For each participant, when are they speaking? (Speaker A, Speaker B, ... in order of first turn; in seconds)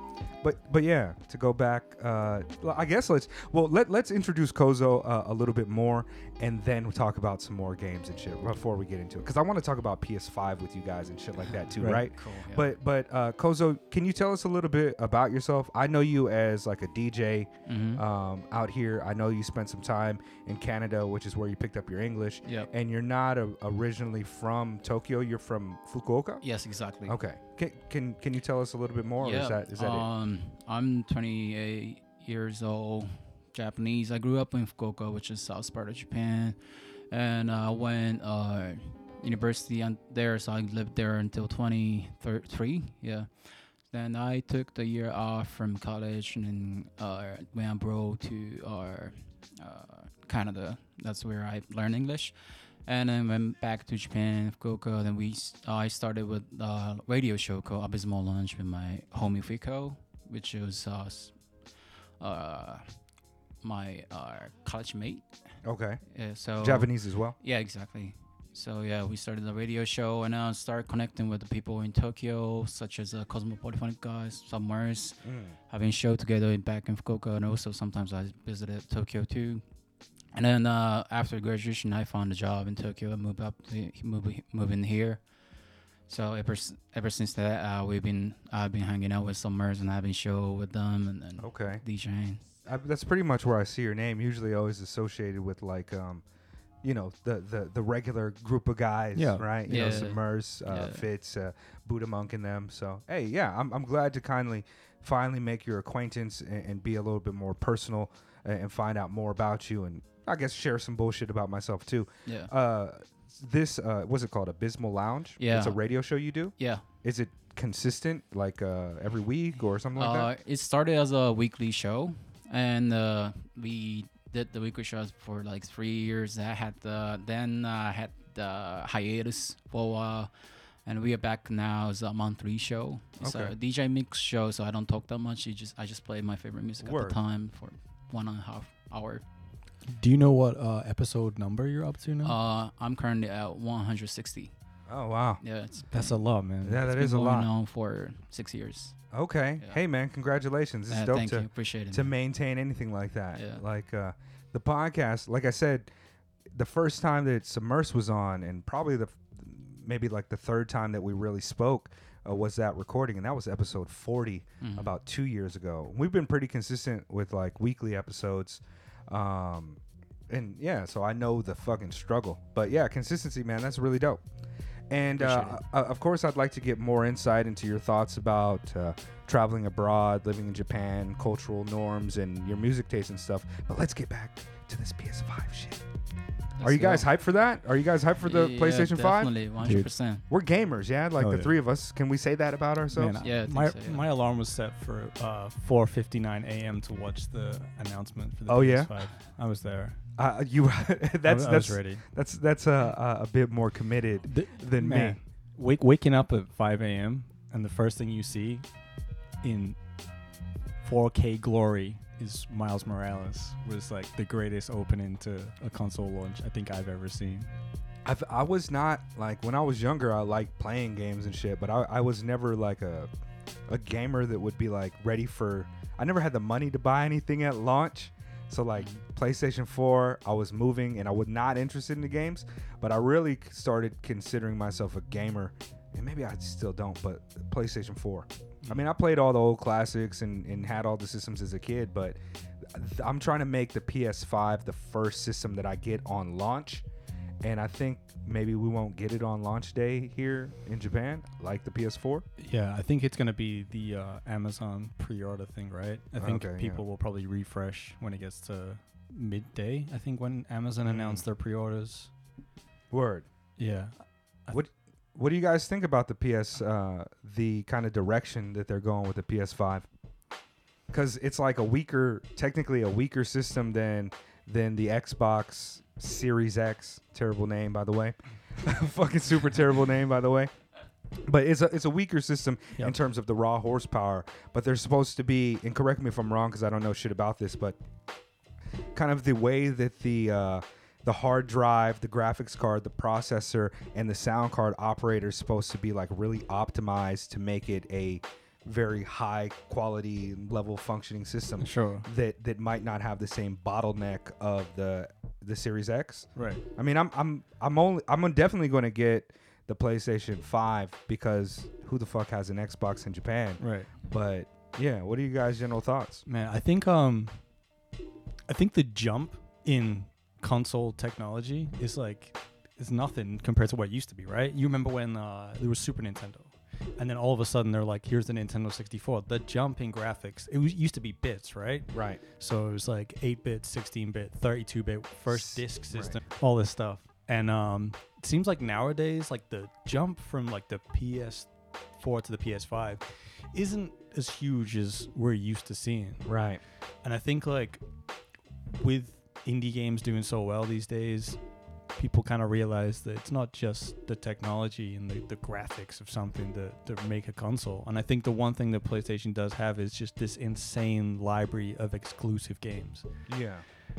Speaker A: 0.4-26.4, 27.0-30.1, 65.6-66.0, 66.6-67.4, 75.2-75.5, 91.4-91.8, 92.7-96.2, 96.8-120.3, 133.2-133.5, 136.8-137.2, 144.9-145.4, 146.6-147.5, 149.1-155.9, 156.5-174.2, 174.9-185.8, 186.6-189.3, 190.3-193.2, 198.5-198.9, 200.2-205.2, 218.0-223.1, 223.7-242.2, 242.7-246.8, 247.4-252.2, 256.2-256.8, 260.8-261.2, 262.9-263.3, 264.5-269.9, 270.9-280.5, 281.2-287.8, 288.9-316.2, 331.9-332.2, 335.3-336.2, 346.2-346.6, 363.3-363.6
Speaker B: 11.4-12.7, 17.7-18.0, 22.4-22.7, 26.4-27.2, 29.2-36.6, 37.1-63.0, 63.6-65.4, 66.1-79.6, 80.3-85.2, 86.1-92.4, 99.7-101.0, 112.2-112.5, 115.4-115.8, 116.6-116.8, 119.9-139.2, 142.2-144.5, 145.4-146.2, 146.7-149.0, 150.9-152.1, 153.3-153.6, 164.6-164.9, 175.2-175.6, 186.6-187.1, 188.2-190.2, 193.2-194.0, 228.8-229.0
Speaker C: 11.8-12.0, 99.1-99.5, 139.8-142.3, 145.9-146.8, 189.6-189.9, 191.2-191.5, 192.9-200.0, 201.2-202.0, 204.3-208.7, 209.4-209.8, 210.8-217.5, 252.4-262.1, 263.6-264.6, 301.6-302.1, 306.3-306.6, 313.6-313.9, 316.3-317.4, 318.5-346.3, 347.0-347.8, 348.7-351.4, 351.9-363.1